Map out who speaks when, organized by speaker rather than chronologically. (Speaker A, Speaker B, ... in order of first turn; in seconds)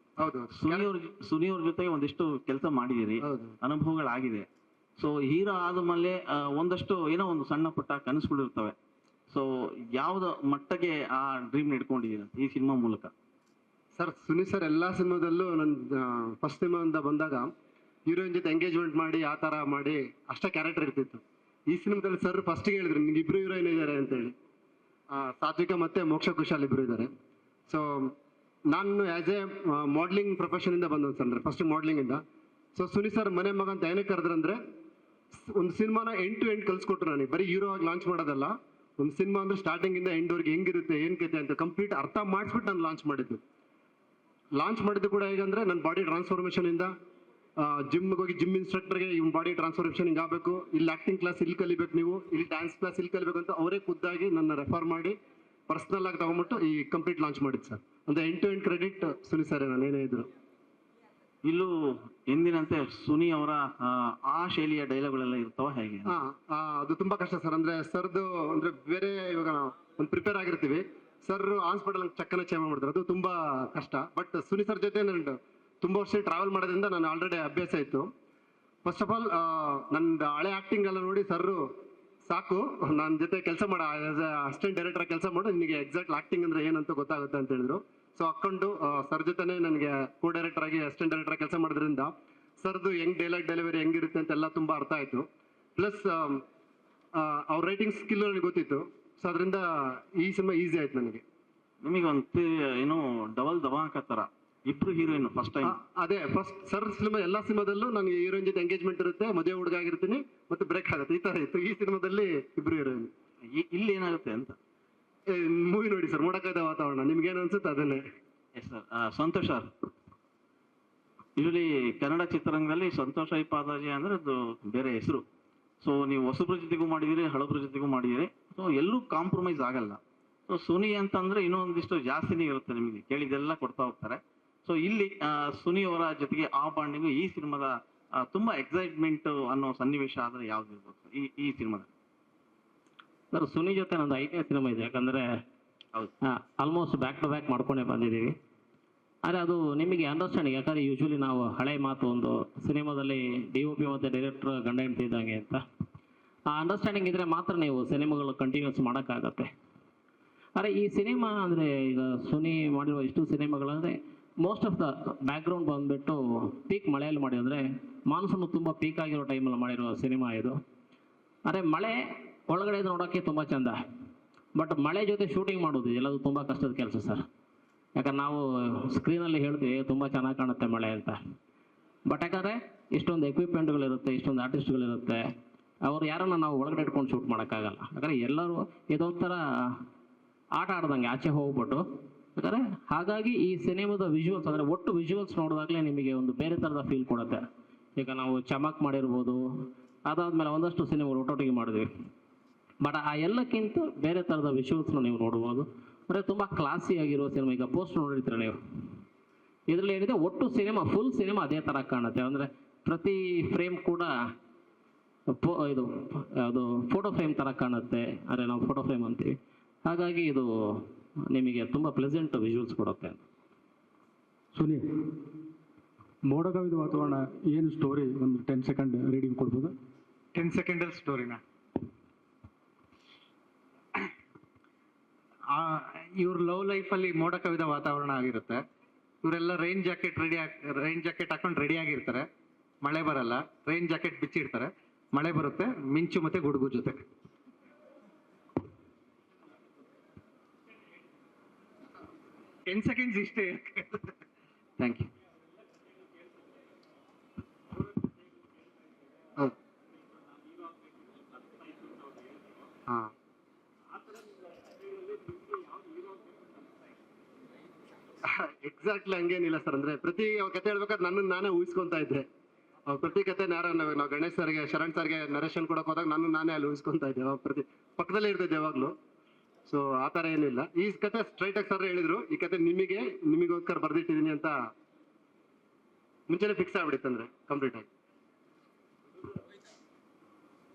Speaker A: 0.2-0.9, 3.2-3.5, 13.9-17.5, 18.1-24.4, 25.1-27.1, 27.7-28.1, 28.7-32.2, 32.8-34.6, 35.3-43.4, 44.6-46.9, 47.6-55.2, 55.7-60.3, 66.1-78.1, 78.8-81.6, 82.3-95.3, 95.8-96.4, 97.2-101.2, 105.6-113.1, 115.3-118.0, 268.2-272.3, 272.9-278.9, 279.7-284.5, 286.3-287.9
Speaker B: 0.5-4.5, 5.0-8.8, 10.0-13.1, 61.4-61.7, 62.3-66.1, 101.8-105.8, 113.5-114.6, 118.6-119.7, 121.4-125.2, 125.8-137.7, 138.2-141.9
Speaker C: 143.3-145.3, 146.2-148.3, 149.2-155.6, 156.5-159.5, 160.6-170.6, 171.4-173.8, 174.6-177.2, 178.0-181.2, 182.1-185.2, 185.8-189.4, 190.6-191.8, 192.4-197.4, 198.0-199.4, 200.1-201.9, 202.8-208.6, 209.7-214.1, 215.3-223.2
Speaker D: 224.5-224.9, 226.2-229.7
Speaker E: 230.3-231.4, 235.6-238.6, 239.2-242.3, 242.8-247.0, 252.7-254.1, 254.8-255.1